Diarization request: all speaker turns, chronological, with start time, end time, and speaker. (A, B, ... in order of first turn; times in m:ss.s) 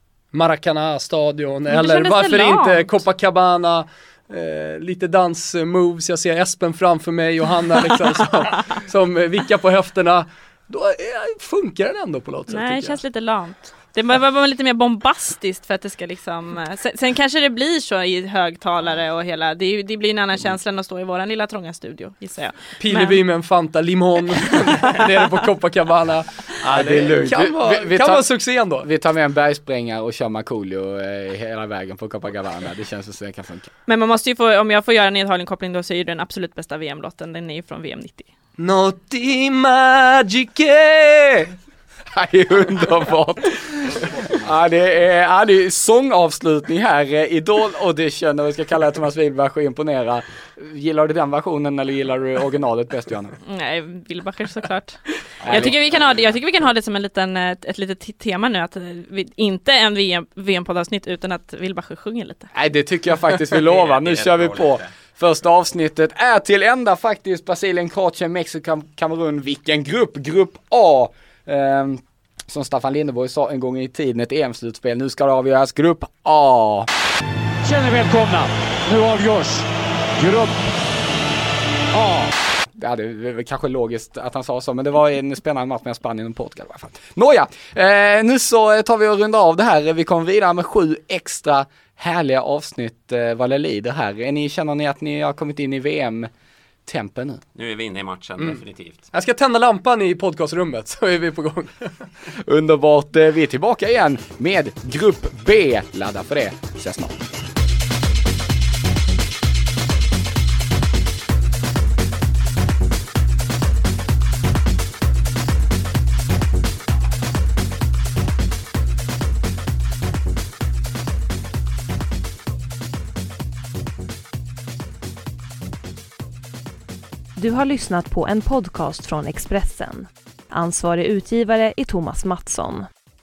0:00.3-0:13.0 A
0:01.7-0:03.0 B
0:12.5-0:23.2 B
0:22.8-0:28.9 A
0:26.6-0:28.2 C
0:28.8-0:33.7 C
0:33.9-0:38.3 B
0:38.6-0:41.5 A
0:42.1-0:53.4 C
0:53.4-1:02.5 B
0:55.4-0:55.8 C
1:02.5-1:16.9 C
1:03.5-1:04.9 D
1:17.6-1:20.7 E
1:21.9-1:22.3 E
1:22.7-1:36.3 C
1:36.8-1:37.4 C
1:37.5-1:39.1 D
1:39.1-1:41.9 A
1:42.4-1:47.2 C
2:07.4-2:12.9 F